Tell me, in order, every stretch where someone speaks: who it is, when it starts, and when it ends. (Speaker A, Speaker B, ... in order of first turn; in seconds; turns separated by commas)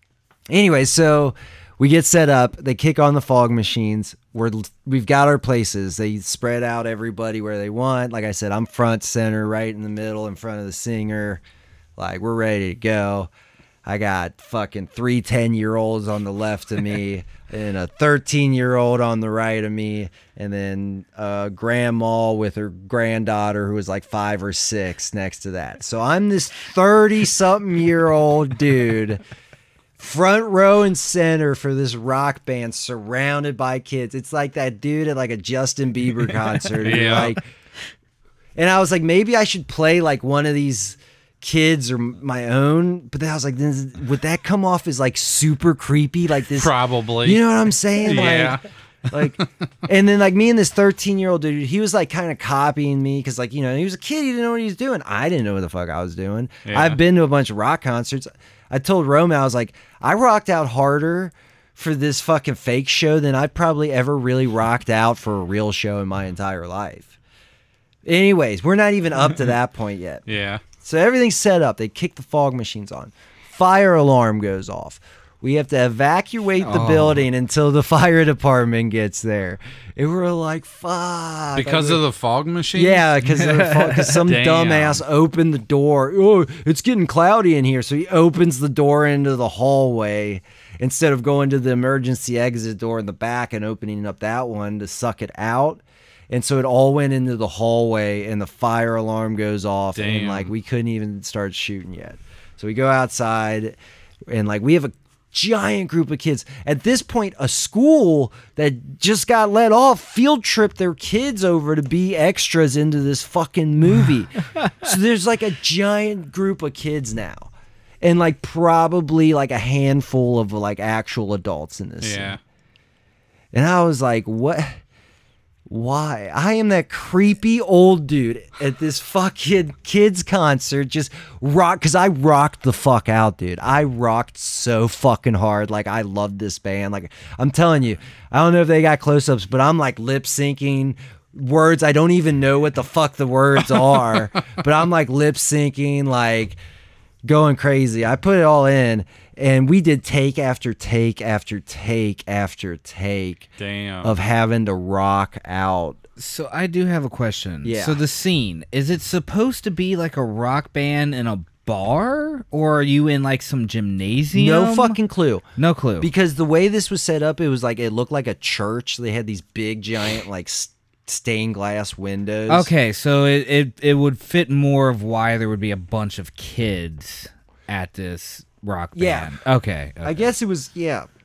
Speaker A: 0.5-11.4, Speaker A: 12.0-13.3, Speaker A: 13.8-29.2, Speaker A: 30.0-37.4, Speaker B: 36.8-37.3, Speaker C: 36.8-37.2, Speaker A: 38.5-46.7, Speaker B: 46.5-47.4, Speaker A: 47.2-67.1, Speaker B: 48.0-48.6, Speaker B: 56.6-57.0, Speaker A: 68.0-70.2, Speaker B: 70.3-70.6, Speaker A: 70.8-82.0, Speaker C: 76.6-77.3, Speaker B: 81.5-83.0, Speaker A: 82.7-103.8, Speaker C: 83.2-84.2, Speaker B: 84.2-85.0, Speaker B: 100.0-100.5, Speaker A: 104.3-117.5, Speaker A: 118.0-122.4, Speaker B: 122.0-122.4, Speaker A: 123.5-124.8, Speaker A: 125.7-146.6, Speaker A: 147.2-153.5, Speaker B: 153.6-154.1, Speaker A: 154.0-156.0, Speaker C: 156.2-165.0, Speaker A: 157.6-158.0, Speaker A: 164.3-165.4, Speaker C: 165.6-166.1, Speaker A: 166.0-172.7, Speaker C: 172.5-180.3, Speaker A: 178.9-179.4, Speaker A: 180.0-181.1